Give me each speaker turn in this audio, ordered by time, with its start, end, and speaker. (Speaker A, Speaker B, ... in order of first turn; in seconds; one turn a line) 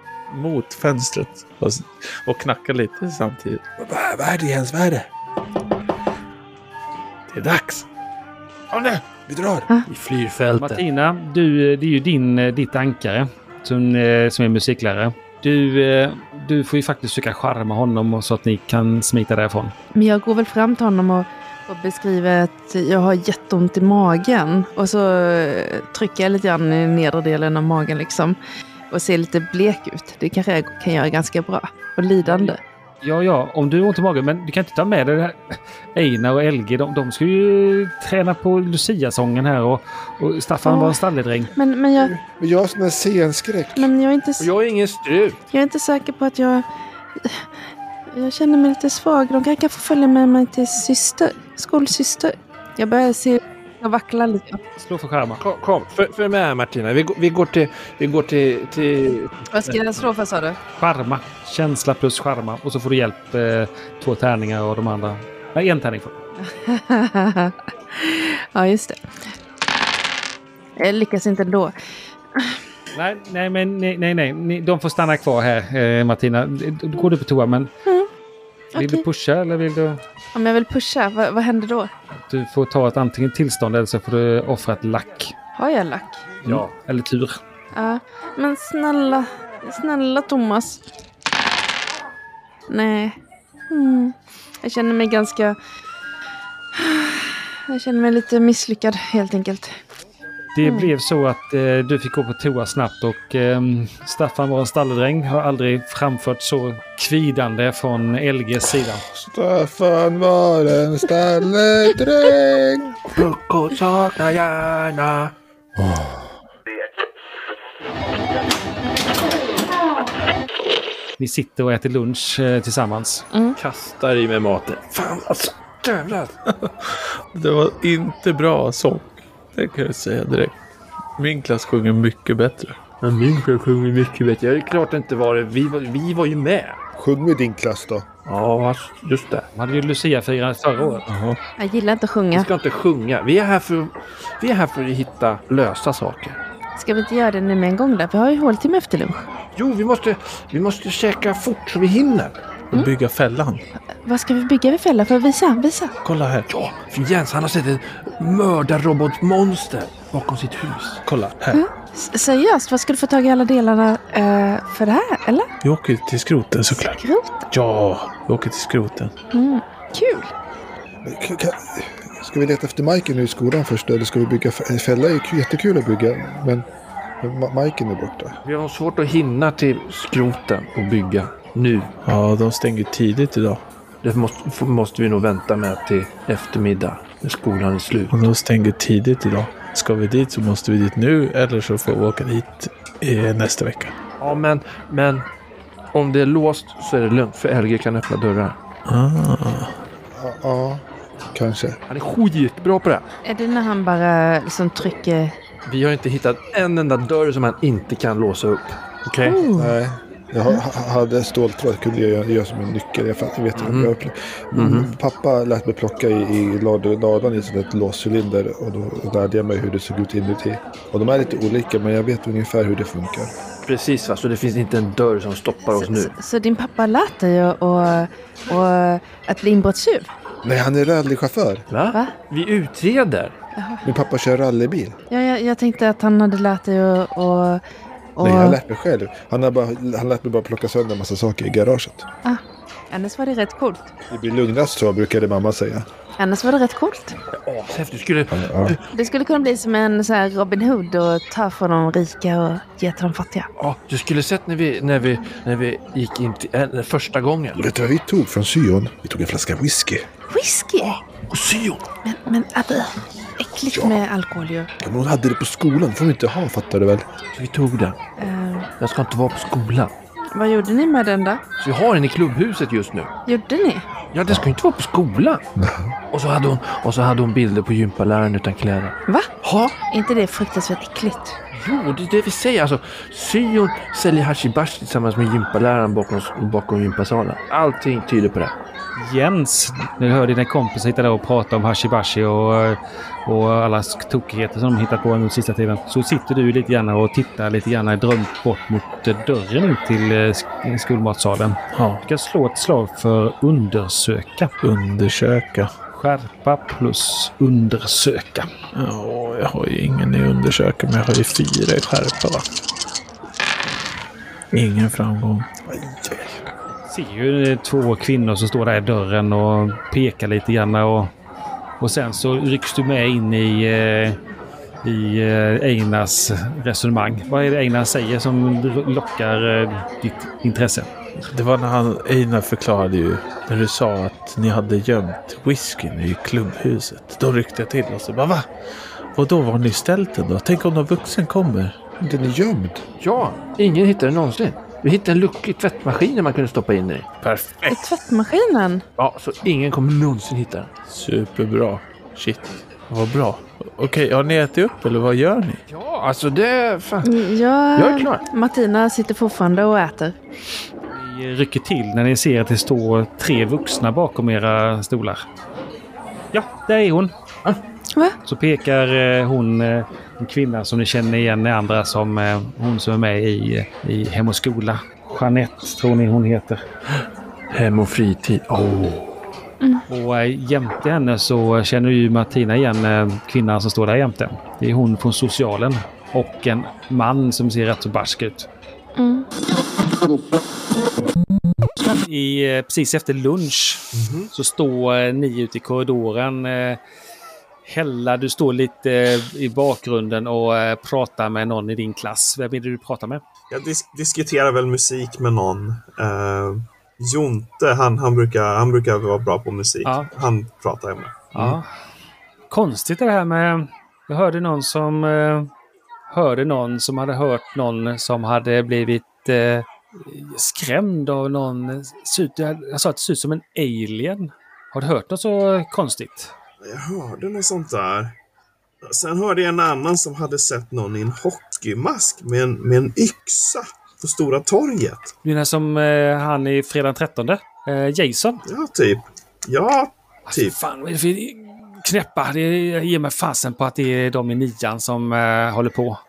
Speaker A: 0.3-3.6
Speaker B: 3.8-5.1
Speaker A: 7.3-7.9
Speaker B: 8.7-9.7
Speaker C: 9.9-10.8
Speaker D: 10.6-19.7
Speaker E: 19.9-28.4
Speaker E: 28.9-32.6
Speaker D: 32.2-41.5
Speaker E: 40.6-41.0
Speaker E: 41.6-42.1
Speaker B: 42.0-43.9
Speaker E: 43.8-44.5
Speaker C: 44.4-45.4
Speaker E: 45.5-46.6
Speaker E: 48.1-54.6
Speaker D: 54.8-55.4
Speaker C: 55.4-59.4
Speaker E: 59.5-60.6
Speaker D: 60.8-66.2
Speaker E: 66.4-69.1
Speaker E: 70.8-71.7
Speaker D: 72.9-77.7
Speaker E: 78.8-79.0
Speaker D: 78.8-80.0
Speaker E: 80.3-81.9
Speaker D: 82.3-85.3
Speaker E: 85.6-86.3
Speaker D: 86.5-87.4
Speaker E: 87.7-90.8
Speaker E: 92.7-93.2
Speaker E: 93.7-95.6
Speaker E: 96.7-99.7
Speaker D: 100.5-109.0
Speaker E: 100.6-100.9
Speaker B: 108.8-113.0
Speaker C: 113.1-115.3
Speaker B: 115.8-116.3
Speaker D: 121.2-123.3
Speaker C: 123.6-126.4
Speaker A: 126.5-130.5
Speaker A: 131.2-132.8
Speaker C: 133.0-136.8
Speaker B: 137.0-138.1
Speaker C: 138.3-139.5
Speaker D: 139.6-141.1
Speaker A: 141.1-141.4
Speaker E: 141.6-142.5
Speaker C: 142.3-146.4
Speaker E: 146.8-149.2
Speaker C: 149.6-152.4
Speaker A: 152.7-153.6
Speaker E: 154.0-155.9
Speaker A: 156.0-156.5
Speaker C: 156.5-161.0
Speaker A: 161.1-161.6
Speaker E: 161.5-165.5
Speaker A: 165.6-167.0
Speaker E: 166.8-167.5
Speaker A: 167.5-169.1
Speaker E: 169.3-170.3
Speaker B: 171.0-176.7
Speaker B: 177.2-178.4
Speaker C: 178.4-181.9
Speaker A: 182.1-183.6
Speaker C: 184.0-188.2
Speaker A: 188.1-193.9
Speaker C: 194.2-195.3
Speaker C: 195.9-198.6
Speaker A: 198.9-199.8
Speaker B: 200.1-201.8
Speaker C: 201.9-203.1
Speaker E: 203.2-205.4
Speaker C: 205.7-209.4
Speaker E: 209.2-209.8
Speaker B: 209.5-223.3
Speaker C: 213.6-213.9
Speaker C: 214.5-214.9
Speaker C: 223.6-226.1
Speaker E: 225.8-230.1
Speaker B: 230.4-231.6
Speaker C: 231.7-233.3
Speaker E: 233.6-233.9
Speaker B: 233.8-235.0
Speaker E: 235.1-237.6
Speaker E: 238.2-238.6
Speaker B: 238.2-242.1
Speaker E: 242.2-243.9
Speaker B: 244.1-245.9
Speaker E: 246.2-247.2
Speaker C: 247.3-248.9
Speaker B: 248.3-248.8
Speaker E: 248.9-253.5
Speaker C: 253.6-257.6
Speaker B: 257.6-260.1
Speaker E: 260.3-260.9
Speaker C: 260.8-261.9
Speaker E: 262.0-264.7
Speaker B: 263.7-264.0
Speaker B: 264.8-267.1
Speaker C: 267.3-268.0
Speaker E: 268.2-268.7
Speaker C: 268.8-269.9
Speaker E: 270.3-271.4
Speaker C: 271.6-273.1
Speaker E: 273.3-273.9
Speaker C: 274.1-275.4
Speaker B: 275.6-275.9
Speaker C: 276.1-279.8
Speaker E: 279.1-281.4
Speaker C: 281.5-288.6
Speaker D: 289.0-304.5
Speaker A: 301.7-302.0
Speaker A: 304.6-305.7
Speaker D: 305.9-308.5
Speaker A: 308.8-312.4
Speaker A: 314.5-315.5
Speaker B: 315.7-316.4
Speaker D: 316.9-321.1
Speaker D: 321.8-324.2
Speaker D: 324.8-330.9
Speaker A: 331.2-338.5
Speaker A: 339.1-341.8
Speaker B: 342.0-342.8
Speaker C: 343.0-347.1
Speaker A: 347.2-347.9
Speaker E: 347.7-348.8
Speaker C: 349.0-350.7
Speaker A: 350.9-355.6
Speaker C: 355.7-358.2
Speaker E: 357.0-360.2
Speaker D: 360.9-365.2
Speaker D: 366.3-367.1
Speaker D: 368.2-376.6
Speaker C: 377.5-379.1
Speaker D: 379.9-388.5
Speaker E: 389.0-389.3
Speaker D: 391.9-396.8
Speaker F: 393.9-394.3
Speaker D: 397.6-403.2
Speaker F: 403.5-411.3
Speaker D: 409.9-410.1
Speaker D: 411.3-411.7
Speaker D: 412.5-415.5
Speaker D: 416.1-426.3
Speaker F: 426.6-428.1
Speaker F: 428.8-435.1
Speaker D: 435.2-438.4
Speaker F: 438.5-440.6
Speaker D: 440.3-446.0